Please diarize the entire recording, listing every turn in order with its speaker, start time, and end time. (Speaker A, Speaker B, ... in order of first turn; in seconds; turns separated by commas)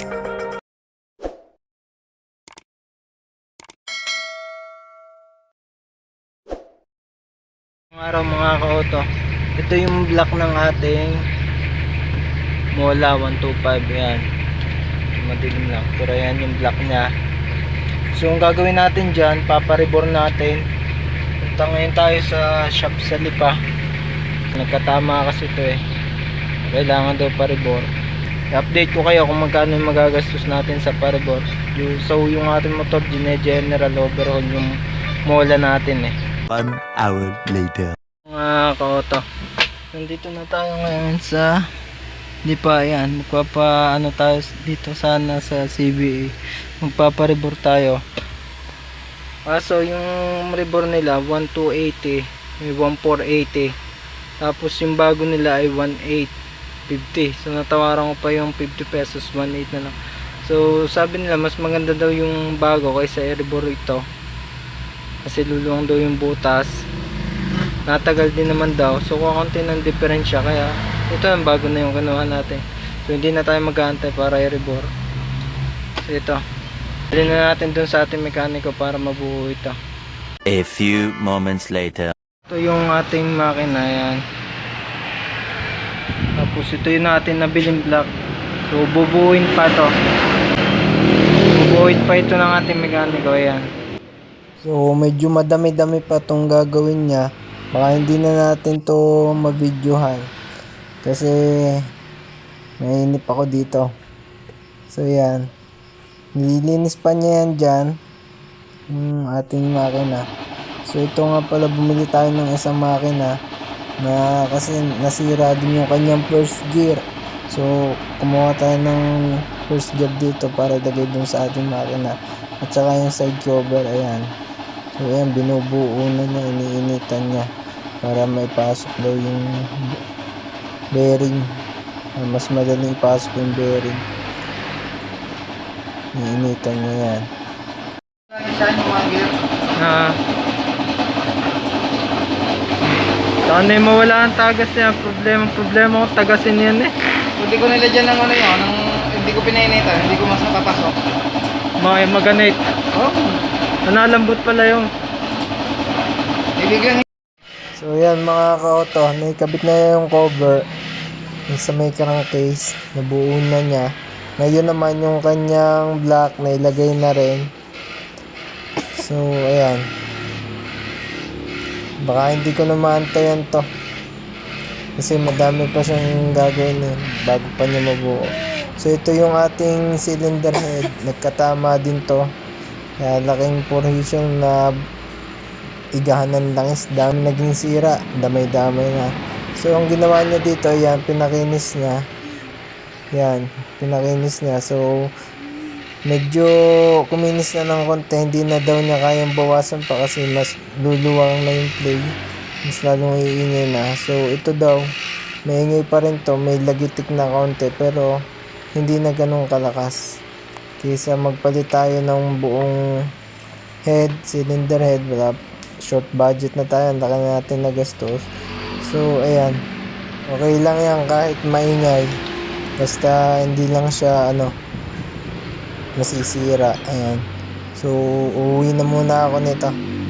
Speaker A: 7.9-9.1, Speaker A: 9.6-11.2, Speaker A: 12.8-14.2, Speaker A: 15.1-17.1, Speaker A: 18.2-20.6, Speaker A: 21.4-23.6, Speaker A: 24.5-25.8, Speaker A: 26.6-27.9, Speaker A: 28.5-34.8, Speaker A: 35.3-36.1, Speaker B: 36.5-38.0, Speaker A: 38.3-39.2, Speaker A: 39.9-41.6, Speaker A: 42.5-48.0, Speaker A: 49.5-53.7, Speaker A: 54.4-56.3, Speaker A: 56.9-64.0, Speaker A: 65.2-66.7, Speaker A: 67.9-74.9, Speaker A: 76.1-76.4, Speaker A: 77.1-79.8, Speaker B: 80.5-82.1, Speaker A: 82.5-84.2, Speaker A: 86.4-88.1, Speaker A: 88.7-89.9, Speaker A: 91.4-93.7, Speaker A: 94.6-100.3, Speaker A: 101.0-101.8, Speaker A: 102.8-103.9, Speaker A: 104.9-105.5, Speaker A: 106.4-108.0, Speaker A: 108.9-110.2, Speaker A: 110.9-113.3, Speaker A: 114.0-124.3, Speaker A: 125.0-127.5, Speaker A: 128.0-130.0, Speaker A: 130.9-131.5, Speaker A: 132.2-134.1, Speaker A: 136.2-137.3, Speaker C: 138.3-139.3, Speaker A: 139.8-140.2, Speaker A: 142.8-146.9, Speaker C: 147.4-151.0, Speaker A: 151.8-154.9, Speaker C: 156.6-157.0, Speaker A: 157.7-160.7, Speaker A: 161.5-167.5, Speaker A: 169.0-169.8, Speaker A: 172.0-173.7, Speaker A: 175.0-178.2, Speaker A: 178.8-182.2, Speaker A: 183.0-184.7, Speaker A: 186.0-192.0, Speaker A: 193.1-195.1, Speaker A: 196.1-202.1, Speaker A: 202.7-204.9, Speaker A: 205.5-208.1, Speaker A: 208.8-210.0, Speaker A: 210.8-212.8, Speaker A: 213.8-218.2, Speaker A: 218.8-219.6, Speaker A: 220.3-222.2, Speaker A: 222.8-224.5, Speaker A: 226.0-229.7